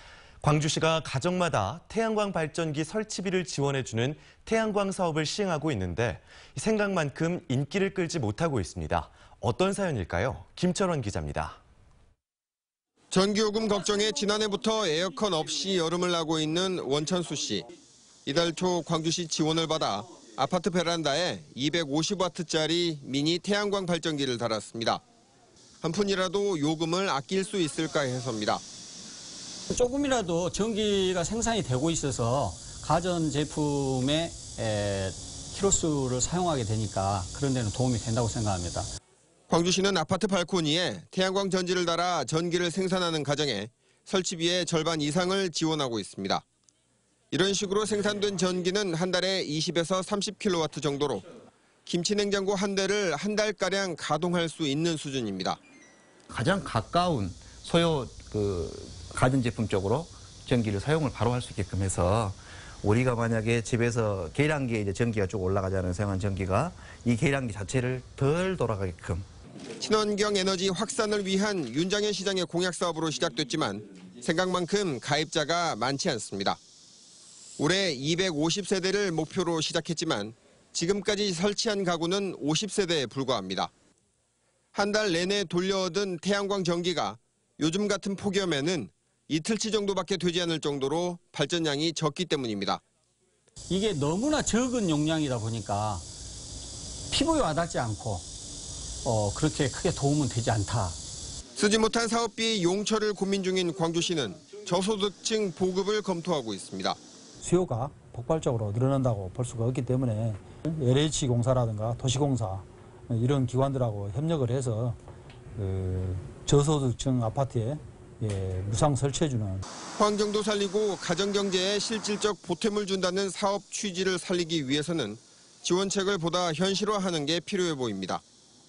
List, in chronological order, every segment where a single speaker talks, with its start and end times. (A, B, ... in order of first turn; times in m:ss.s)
0:00.4-0:11.6 A
0:13.1-0:17.7 B
0:18.2-0:25.0 B
0:25.8-0:28.6 B
0:29.7-0:38.9 C
0:39.5-0:46.4 B
0:47.3-0:51.2 B
0:51.8-0:55.6 B
0:56.3-1:09.2 D
1:09.8-1:16.6 B
1:17.6-1:23.7 B
1:24.7-1:32.8 B
1:33.7-1:36.0 C
1:37.1-1:38.2 C
1:39.0-1:41.0 C
1:41.6-1:47.0 B
1:47.4-1:55.0 E
1:55.5-1:59.6 E
2:00.0-2:08.2 B